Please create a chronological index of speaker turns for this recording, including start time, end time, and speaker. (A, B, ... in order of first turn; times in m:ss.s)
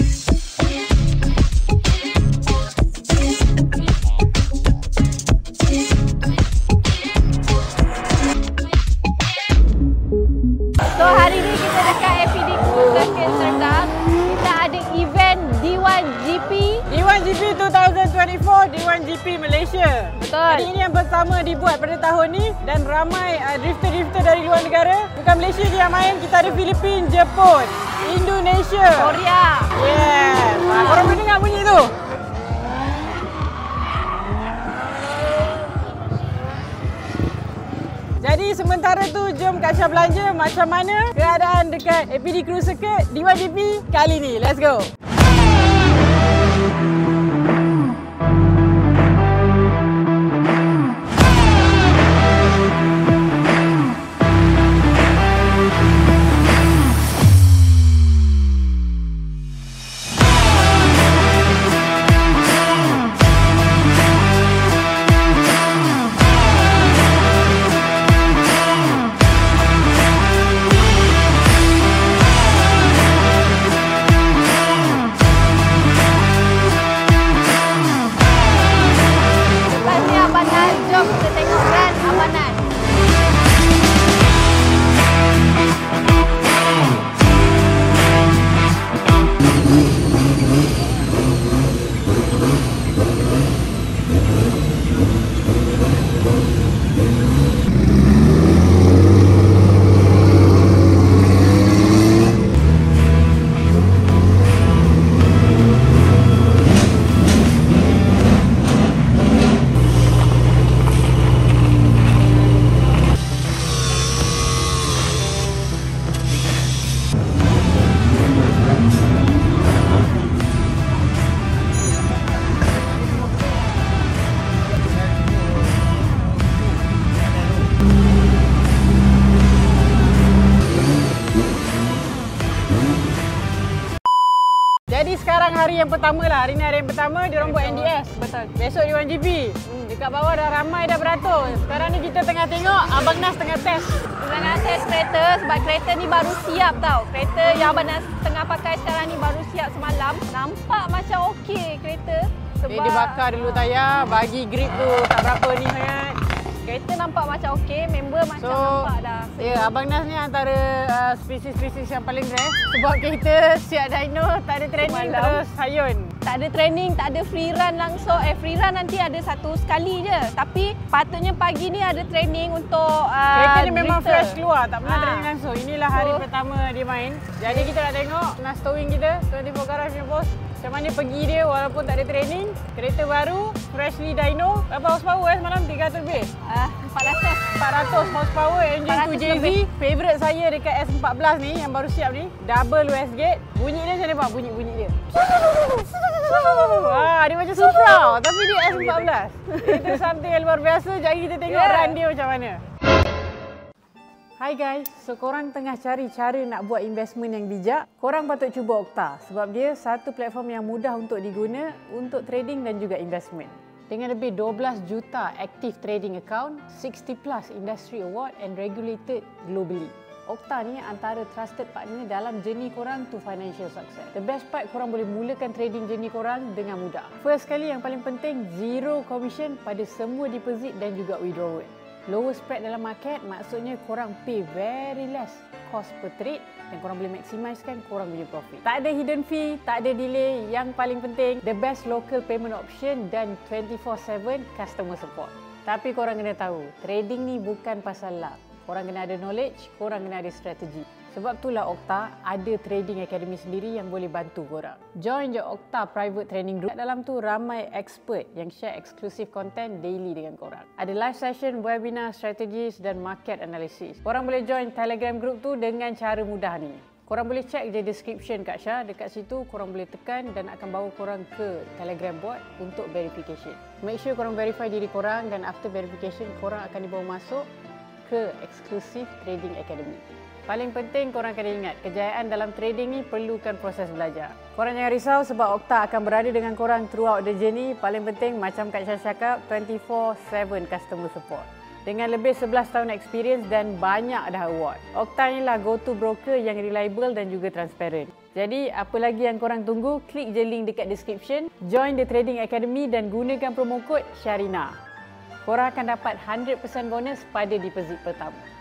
0:10.9-0:16.8 A
0:16.9-0:29.2 B
0:20.2-0:20.7 A
0:29.0-0:29.7 A
0:29.7-0:31.9 B
0:30.7-0:31.2 A
0:38.2-0:44.9 B
1:19.7-1:22.6 A
2:14.9-2:24.0 B
2:17.4-2:18.5 A
2:24.2-2:33.6 A
2:32.7-2:36.2 B
2:36.6-2:39.7 A
2:38.4-2:46.1 B
2:44.8-2:45.4 A
2:46.2-2:55.3 A
2:53.3-3:06.3 B
2:55.9-2:56.2 A
3:06.4-3:07.5 A
3:07.5-3:15.0 B
3:08.9-3:09.6 A
3:16.1-3:22.6 B
3:16.4-3:17.0 A
3:17.5-3:20.0 A
3:21.5-3:22.0 A
3:24.4-4:37.5 B
4:38.0-5:04.8 B
5:05.4-5:08.4 B